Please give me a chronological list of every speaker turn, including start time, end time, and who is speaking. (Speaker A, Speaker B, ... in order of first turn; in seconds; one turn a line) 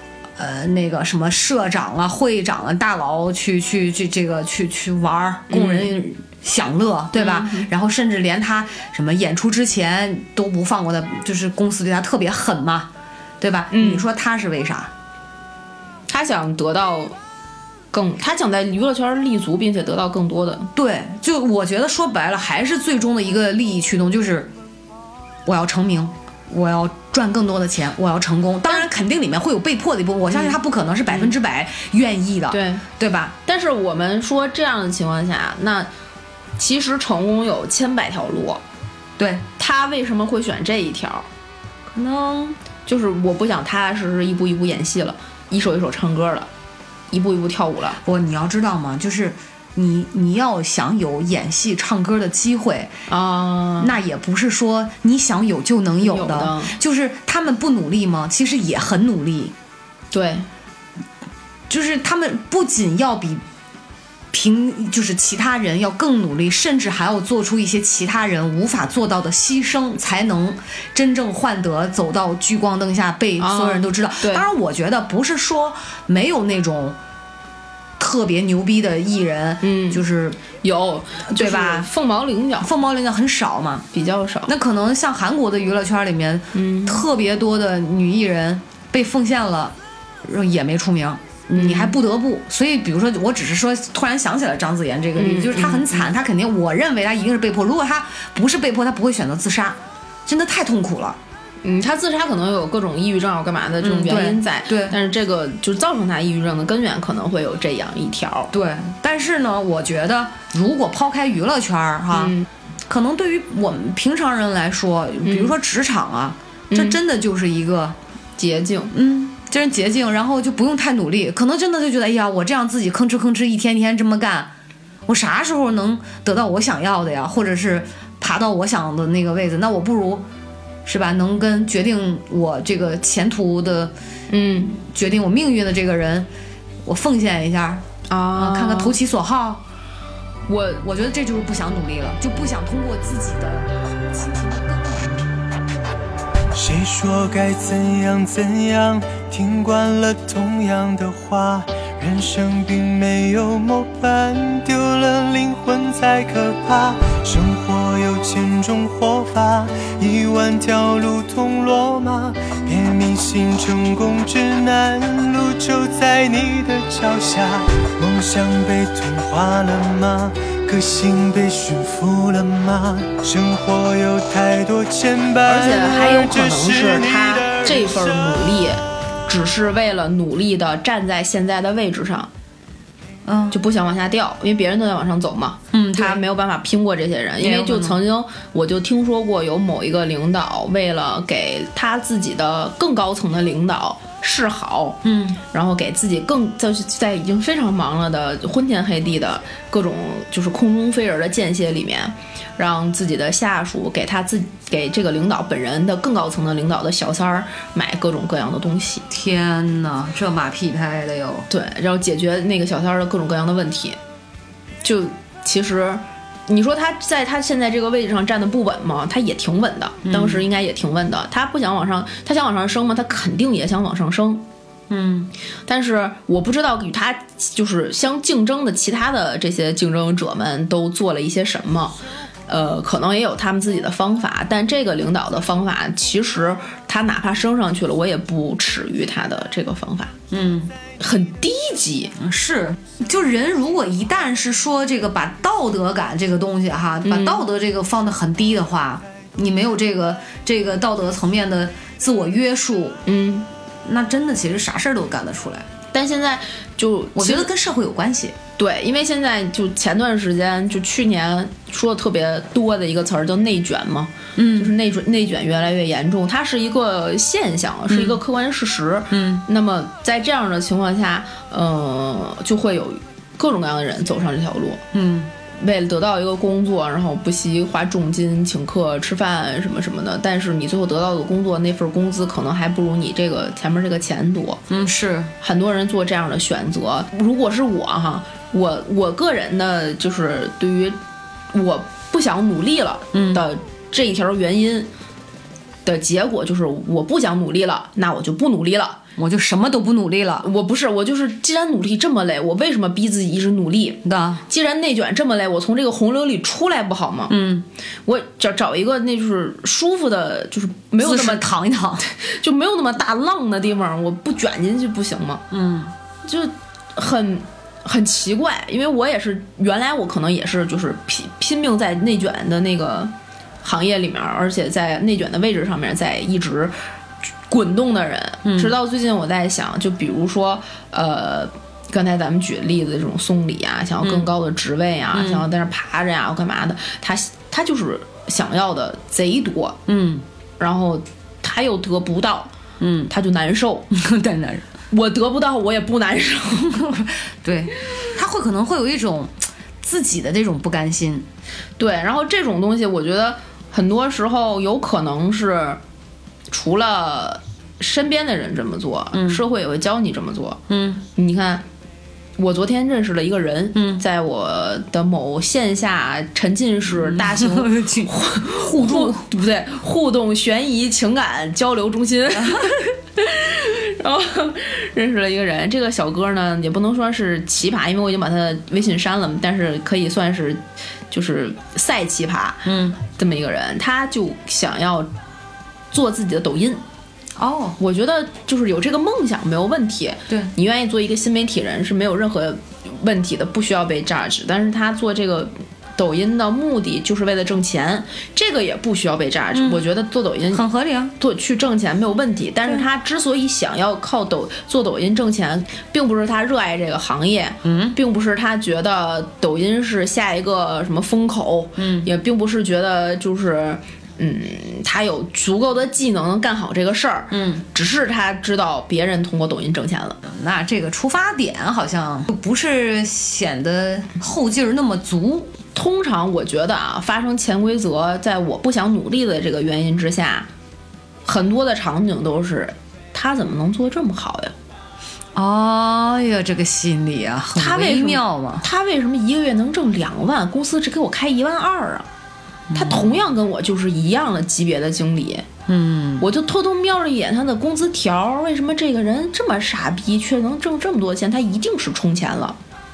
Speaker A: 0.4-14.9
Speaker B: 5.5-5.9
Speaker B: 7.1-7.7
Speaker B: 13.7-14.1
Speaker B: 16.1-17.1
Speaker B: 17.9-20.7
Speaker A: 20.8-24.5
Speaker A: 25.4-33.3
Speaker B: 30.3-30.6
Speaker B: 32.5-32.8
Speaker B: 33.5-35.9
Speaker B: 36.6-38.6
Speaker A: 39.2-39.4
Speaker B: 39.6-41.3
Speaker A: 41.9-42.6
Speaker B: 42.9-46.5
Speaker B: 47.1-48.0
Speaker A: 48.0-52.9
Speaker B: 53.1-54.0
Speaker A: 53.8-59.5
Speaker B: 56.0-56.7
Speaker B: 60.1-60.5
Speaker A: 61.7-63.4
Speaker A: 64.3-77.0
Speaker B: 73.4-74.5
Speaker A: 78.0-80.4
Speaker B: 79.6-80.0
Speaker B: 80.6-82.7
Speaker A: 81.3-81.9
Speaker A: 82.6-83.8
Speaker B: 83.9-84.5
Speaker A: 84.5-101.2
Speaker B: 86.5-87.0
Speaker B: 91.5-92.0
Speaker B: 95.2-96.1
Speaker B: 101.6-108.5
Speaker A: 103.8-105.0
Speaker A: 108.5-112.3
Speaker B: 112.1-112.5
Speaker A: 112.9-118.0
Speaker B: 115.2-115.5
Speaker B: 116.7-117.0
Speaker B: 118.4-118.9
Speaker A: 118.9-124.5
Speaker A: 125.1-130.2
Speaker A: 130.8-133.9
Speaker B: 134.3-134.8
Speaker A: 134.6-136.3
Speaker A: 136.8-137.8
Speaker B: 138.1-139.0
Speaker A: 138.3-139.6
Speaker B: 140.5-140.8
Speaker A: 140.8-145.3
Speaker C: 146.5-178.5
Speaker B: 175.4-182.3
Speaker A: 183.2-183.6
Speaker B: 183.5-209.1
Speaker A: 185.7-186.2
Speaker A: 187.4-188.0
Speaker A: 195.0-195.4
Speaker A: 209.1-211.5
Speaker B: 211.5-214.0
Speaker B: 214.8-224.4
Speaker A: 220.0-220.4
Speaker A: 224.9-225.3
Speaker B: 225.7-231.9
Speaker B: 232.5-240.1
Speaker A: 240.3-240.7
Speaker B: 241.0-242.1
Speaker A: 242.2-253.0
Speaker B: 247.0-247.4
Speaker B: 253.1-253.5
Speaker A: 253.8-255.7
Speaker B: 255.9-257.5
Speaker A: 257.1-258.4
Speaker B: 258.6-274.8
Speaker A: 264.4-264.7
Speaker A: 267.9-268.2
Speaker A: 269.1-269.4
Speaker A: 274.9-275.3
Speaker B: 275.6-284.6
Speaker A: 284.7-285.3
Speaker B: 285.4-291.0
Speaker B: 291.5-294.9
Speaker A: 293.1-293.4
Speaker B: 295.9-299.0
Speaker A: 299.2-300.4
Speaker B: 300.4-307.3
Speaker A: 304.0-304.4
Speaker A: 307.3-307.6
Speaker B: 308.1-311.4
Speaker A: 311.0-312.0
Speaker B: 312.0-315.4
Speaker A: 315.5-315.9
Speaker B: 316.2-323.1
Speaker B: 323.6-326.7
Speaker B: 327.5-339.8
Speaker A: 328.4-328.7
Speaker A: 334.0-334.3
Speaker A: 335.1-335.5
Speaker A: 339.9-340.2
Speaker B: 340.6-342.5
Speaker A: 342.8-343.1
Speaker B: 343.1-343.9
Speaker A: 343.9-344.6
Speaker B: 344.9-347.0
Speaker A: 346.9-351.3
Speaker B: 351.8-355.8
Speaker B: 356.5-360.6
Speaker A: 359.1-359.4
Speaker A: 360.7-361.0
Speaker B: 361.1-361.6
Speaker B: 362.4-385.1
Speaker A: 363.7-364.0
Speaker A: 366.9-369.2
Speaker A: 372.4-372.7
Speaker A: 382.6-383.0
Speaker B: 385.9-386.8
Speaker A: 387.4-387.8
Speaker B: 387.8-400.6
Speaker A: 399.5-399.8
Speaker A: 400.5-401.1
Speaker B: 401.2-420.2
Speaker A: 407.6-408.0
Speaker A: 411.8-412.1
Speaker A: 417.3-417.6
Speaker A: 420.2-425.5
Speaker B: 425.7-430.5
Speaker B: 431.2-434.5
Speaker A: 435.3-438.6
Speaker B: 437.5-442.1
Speaker A: 442.7-443.2
Speaker B: 442.7-445.5
Speaker A: 445.7-446.3
Speaker B: 446.2-452.6